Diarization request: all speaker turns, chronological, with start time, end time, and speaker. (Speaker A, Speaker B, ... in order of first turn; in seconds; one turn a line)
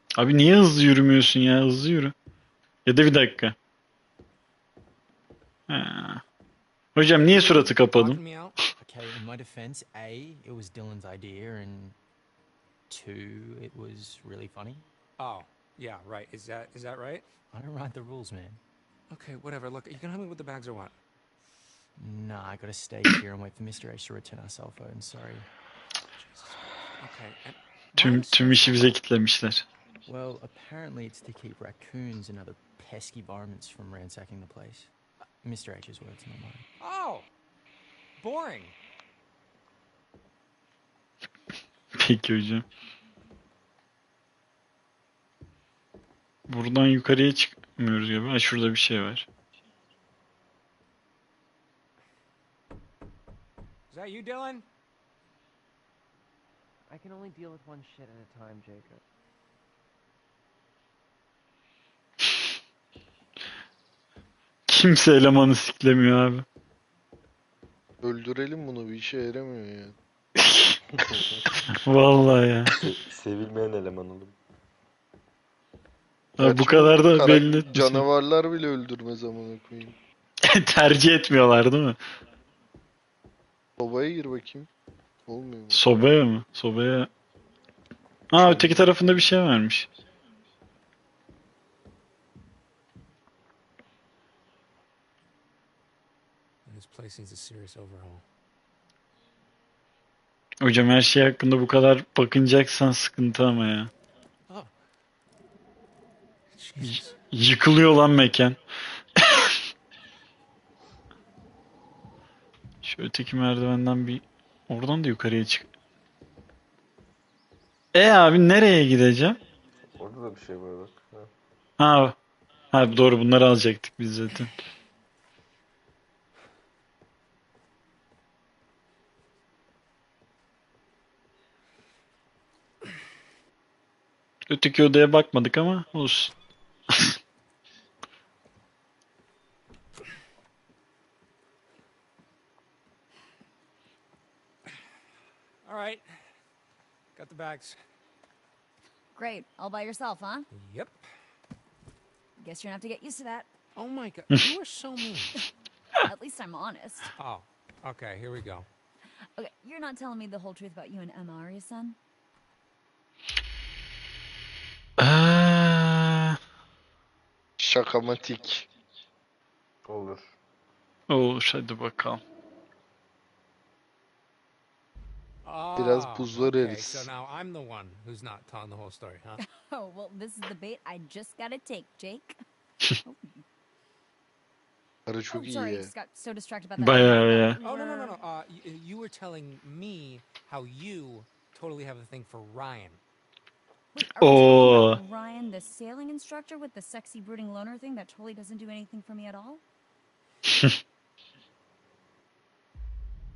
Speaker A: 0.1-2.1
Speaker A: 2.9-3.5
Speaker A: 5.7-6.2
Speaker A: 6.9-8.2
Speaker B: 7.4-8.6
Speaker C: 8.8-12.0
Speaker C: 12.9-14.8
Speaker B: 15.2-17.2
Speaker C: 17.5-18.6
Speaker B: 19.1-20.9
Speaker C: 22.0-25.5
Speaker B: 26.1-28.9
Speaker A: 27.9-29.6
Speaker C: 30.0-36.6
Speaker B: 36.8-37.3
Speaker B: 38.2-38.7
Speaker A: 41.9-42.6
Speaker A: 46.5-49.2
Speaker B: 53.9-54.6
Speaker D: 56.9-59.0
Speaker A: 64.7-66.4
Speaker E: 68.0-69.9
Speaker A: 70.4-70.8
Speaker A: 71.7-72.8
Speaker F: 72.7-74.3
Speaker A: 76.4-78.0
Speaker E: 76.4-80.0
Speaker A: 80.4-82.0
Speaker E: 83.8-84.7
Speaker E: 85.3-85.8
Speaker A: 85.7-87.1
Speaker A: 88.3-89.9
Speaker E: 88.4-88.9
Speaker B: 96.6-98.2
Speaker A: 100.6-103.9
Speaker B: 106.5-107.2
Speaker A: 106.8-108.6
Speaker A: 109.2-109.6
Speaker A: 112.8-115.7
Speaker A: 117.9-119.4
Speaker F: 120.0-121.3
Speaker A: 121.8-122.1
Speaker A: 122.7-124.5
Speaker A: 134.5-136.3
Speaker A: 136.9-137.2
Speaker B: 145.6-146.2
Speaker B: 147.1-147.8
Speaker G: 149.1-150.5
Speaker B: 150.5-151.0
Speaker G: 152.4-153.5
Speaker B: 153.7-155.3
Speaker G: 156.0-157.1
Speaker B: 157.2-158.7
Speaker G: 159.2-162.0
Speaker A: 165.0-166.4
Speaker E: 167.6-168.7
Speaker F: 169.8-170.3
Speaker A: 171.1-172.2
Speaker B: 175.4-179.4
Speaker E: 175.8-177.1
Speaker G: 179.4-182.4
Speaker G: 183.0-183.4
Speaker E: 185.1-185.9
Speaker G: 185.3-188.2
Speaker A: 186.8-187.6
Speaker B: 187.6-193.0
Speaker G: 193.9-199.6
Speaker A: 194.2-195.0